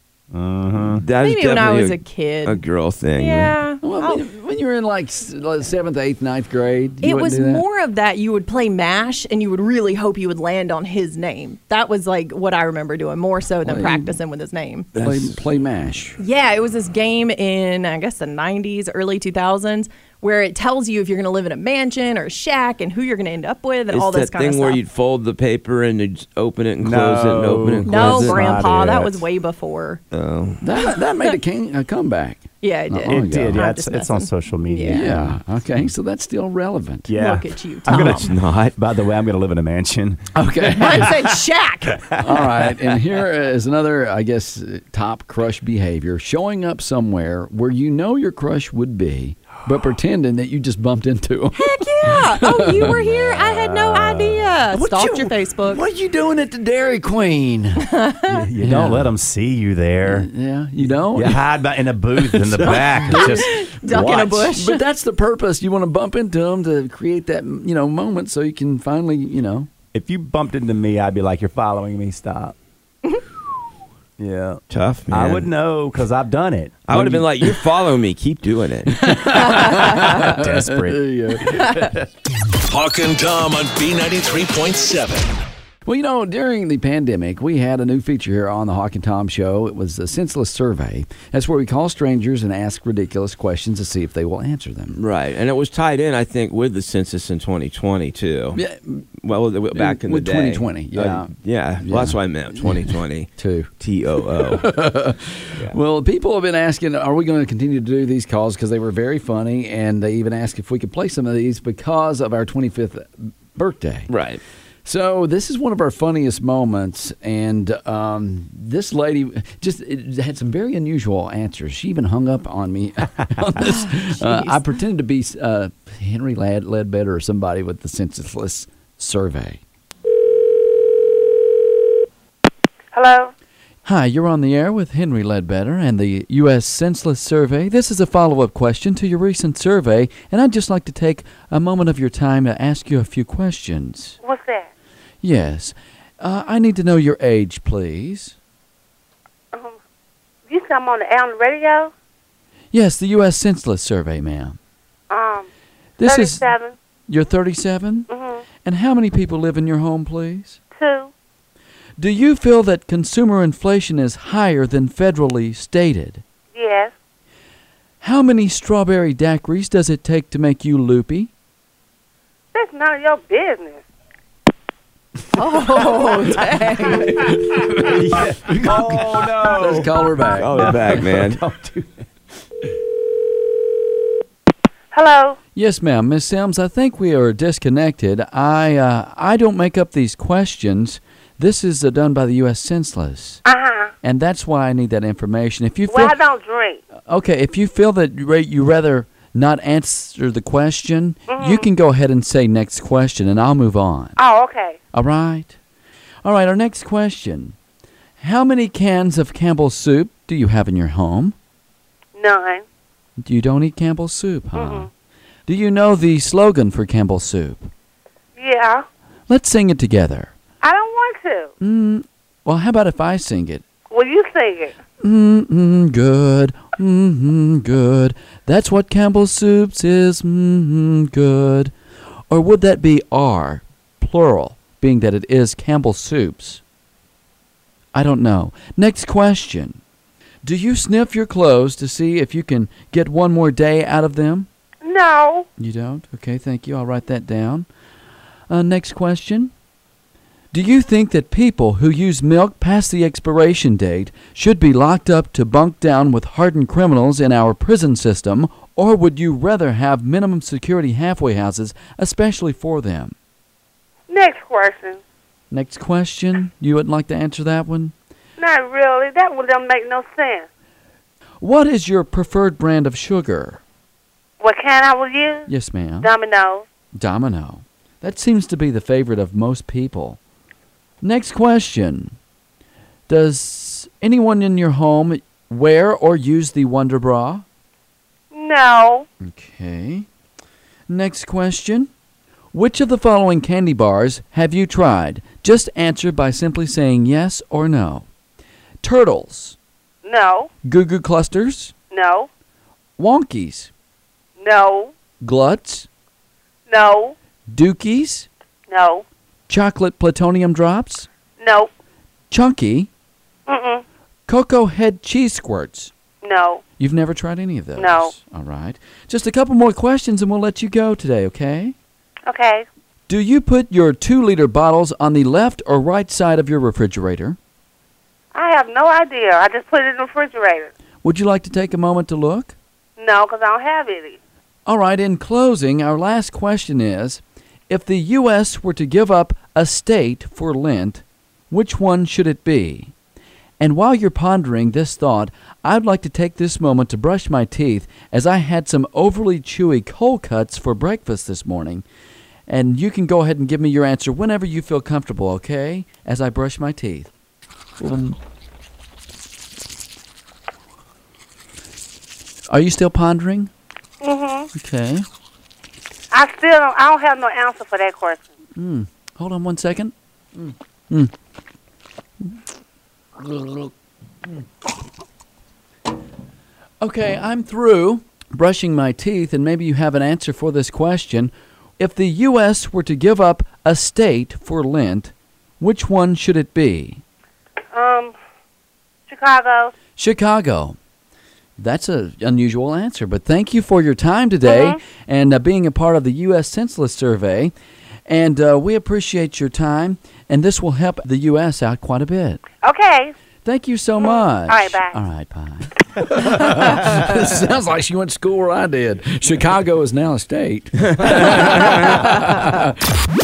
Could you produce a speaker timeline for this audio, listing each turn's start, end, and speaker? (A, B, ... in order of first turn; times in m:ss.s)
0:00.3-0:01.0 A
0:01.0-0:03.6 B
0:01.2-0:02.6 C
0:03.2-0:04.2 C
0:03.8-0:07.6 D
0:07.0-0:14.9 C
0:13.6-0:14.2 D
0:15.0-0:15.2 B
0:15.0-0:16.2 D
0:16.2-0:24.8 C
0:23.9-0:28.5 B
0:26.8-0:29.2 A
0:27.9-0:30.0 C
0:30.1-0:30.6 B
0:30.6-0:33.6 D
0:32.6-0:35.1 C
0:33.1-0:35.9 A
0:34.9-0:37.1 D
0:37.1-0:40.3 A
0:37.2-0:38.2 C
0:37.9-0:38.8 B
0:40.4-0:41.2 D
0:40.8-0:42.1 C
0:41.0-0:41.2 A
0:42.2-0:52.9 D
0:51.6-0:55.8 C
0:52.9-0:54.6 A
0:54.7-0:57.9 D
0:57.8-0:58.3 C
0:58.3-1:00.3 A
0:58.6-0:59.1 D
1:00.0-1:01.6 D
1:01.1-1:04.5 A
1:02.2-1:03.4 D
1:02.7-1:04.8 C
1:04.5-1:09.7 D
1:09.9-1:12.6 A
1:14.2-1:17.1 A
1:14.7-1:15.5 B
1:16.9-1:19.2 B
1:16.9-1:17.2 D
1:18.9-1:22.0 D
1:20.0-1:21.0 A
1:22.7-1:25.4 E
1:25.8-1:35.0 D
1:34.9-1:38.6 B
1:38.5-1:39.1 D
1:39.2-1:43.3 B
1:39.7-1:54.1 D
1:43.8-1:44.7 B
1:54.1-1:54.4 B
1:54.8-2:09.6 D
2:03.9-2:04.6 C
2:12.9-2:13.3 F
2:13.8-2:24.2 D
2:24.2-2:24.7 F
2:25.2-2:28.4 D
2:30.5-2:31.9 F
2:32.7-2:34.6 D
2:35.1-2:35.5 F
2:36.0-2:36.5 D
2:36.0-2:36.8 F
2:37.1-2:38.1 D
2:38.1-2:38.4 F
2:38.6-2:40.6 D
2:40.8-2:41.1 F
2:42.0-2:46.2 D
2:46.6-2:46.9 F
2:48.0-2:51.3 D
2:52.5-2:53.8 F
2:55.3-2:57.3 C
2:57.0-3:01.0 D
2:57.8-3:01.9 A
3:00.4-3:01.4 B
3:04.9-3:05.4 F
3:05.6-3:13.4 D
3:13.5-3:13.9 F
3:14.0-3:16.2 D
3:15.9-3:16.8 F
3:17.1-3:24.2 D
3:21.3-3:21.7 F
3:24.2-3:24.8 F
3:24.9-3:25.6 D
3:26.2-3:27.6 D
3:28.2-3:31.4 D
3:32.2-3:32.6 F
3:33.2-3:34.9 D
3:34.5-3:34.9 F
3:35.5-3:37.7 D
3:38.4-3:38.8 F
3:39.3-3:40.3 D
3:40.6-3:41.5 F
3:41.6-3:43.6 D
3:43.9-3:44.8 F
3:45.0-3:51.7 D
3:52.3-3:56.6 D
3:57.9-3:59.8 D
4:00.4-4:04.5 D
4:04.8-4:05.5 F
4:05.6-4:07.7 D
4:08.5-4:09.5 D
4:10.5-4:23.2 D
4:24.1-4:25.0 F
4:25.5-4:27.9 D
4:28.4-4:30.5 F
4:31.4-4:33.6 D
4:34.4-4:35.5 F
4:35.5-4:36.1 D
4:36.0-4:36.6 F
4:37.0-4:40.2 D
4:41.0-4:42.2 D
4:43.1-4:47.4 D
4:48.3-4:49.1 F
4:49.2-4:50.1 D
4:50.9-4:51.9 D
4:52.5-4:58.1 D
4:58.8-4:59.6 D
5:00.0-5:00.5 F
5:00.6-5:01.7 D
5:01.9-5:02.3 F
5:03.0-5:03.7 D
5:04.4-5:04.9 F
5:05.2-5:05.9 D
5:06.7-5:07.2 F
5:07.5-5:08.3 D
5:08.7-5:09.0 F
5:09.5-5:11.1 D
5:11.4-5:11.7 F
5:12.3-5:12.9 D
5:13.5-5:13.8 F
5:14.3-5:15.9 D
5:16.2-5:16.6 F
5:16.8-5:21.8 D
5:17.8-5:18.2 F
5:22.3-5:22.6 F
5:23.1-5:27.4 D
5:28.3-5:30.7 F
5:31.0-5:32.6 D
5:33.0-5:34.2 F
5:34.7-5:42.9 D
5:43.6-5:51.8 D
5:52.5-5:57.1 D
5:57.8-5:58.2 D
6:02.5-6:03.5 D
6:04.0-6:04.5 F
6:04.6-6:05.0 D
6:06.1-6:08.2 F
6:08.6-6:11.1 D
6:13.2-6:13.7 D
6:16.8-6:27.0 D
6:27.7-6:28.1 F
6:29.1-6:29.7 F
6:30.0-6:30.8 D
6:31.6-6:37.5 D
6:34.4-6:34.8 F
6:38.1-6:42.4 D
6:42.6-6:43.1 F
6:43.4-6:52.7 D
6:44.0-6:45.0 F